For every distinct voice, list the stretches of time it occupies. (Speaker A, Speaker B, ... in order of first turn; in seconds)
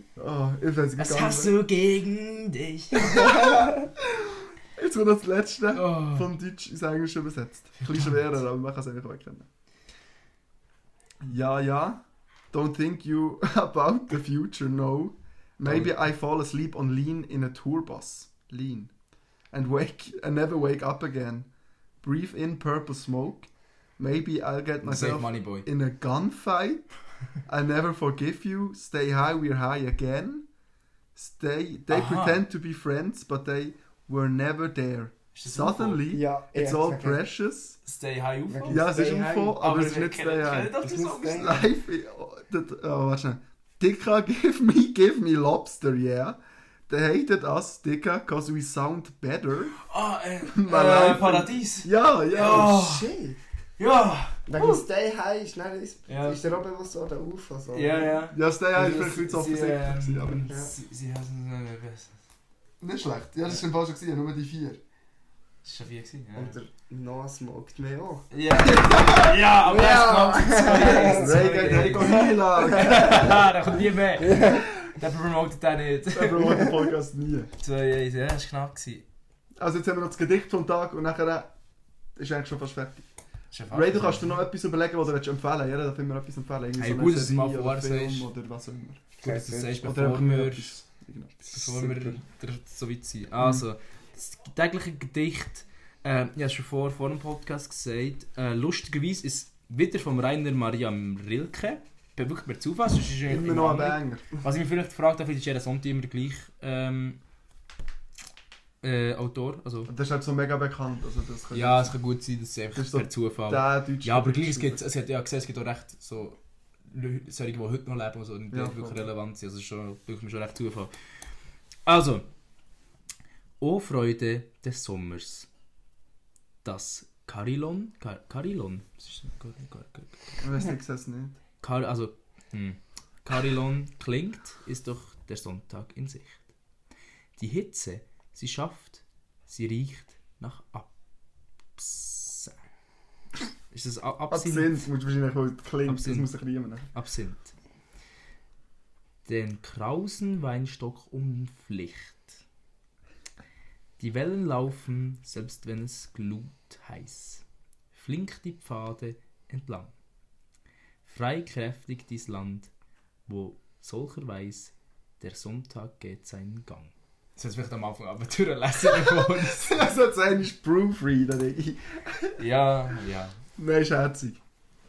Speaker A: 0.2-1.5, 3.1-9.5, 11.2-18.9, 19.5-21.5, 22.0-26.9, 27.4-30.4, 31.1-37.8, 38.7-49.8, 50.5-52.8, 58.3-60.5, 62.8-64.8, 68.7-69.3, 70.8-73.3, 76.1-77.5, 79.6-81.5, 82.2-83.1, 83.7-89.0, 89.8-92.0, 103.3-104.3, 109.9-111.9, 112.7-114.8, 118.5-119.1, 130.4-131.4, 144.3-146.9, 169.0-172.4, 173.6-174.4
Speaker B: 1.0-3.4, 5.7-6.3, 15.6-15.9, 24.8-25.7, 31.9-32.4, 35.3-36.0, 37.8-41.6, 49.8-53.1, 53.8-54.8, 56.1-56.5, 57.7-62.1, 65.6-66.6, 68.3-76.6, 77.6-79.0, 83.5-84.4, 86.8-88.3, 89.2-90.8, 91.5-107.2, 108.8-109.9, 111.5-120.9, 121.8-122.2, 123.6-125.5, 126.6-130.4, 131.6-136.4, 137.4-140.9, 141.8-142.6, 143.7-144.8, 145.8-146.3, 146.9-147.5, 149.2-152.4, 154.0-159.9, 161.0-162.7, 163.3-169.8, 172.4-173.4
Speaker C: 36.1-37.2, 38.5-39.4, 40.8-41.6, 52.4-53.4, 54.5-58.2, 66.3-68.2, 69.5-72.0, 74.2-74.6, 89.2-89.9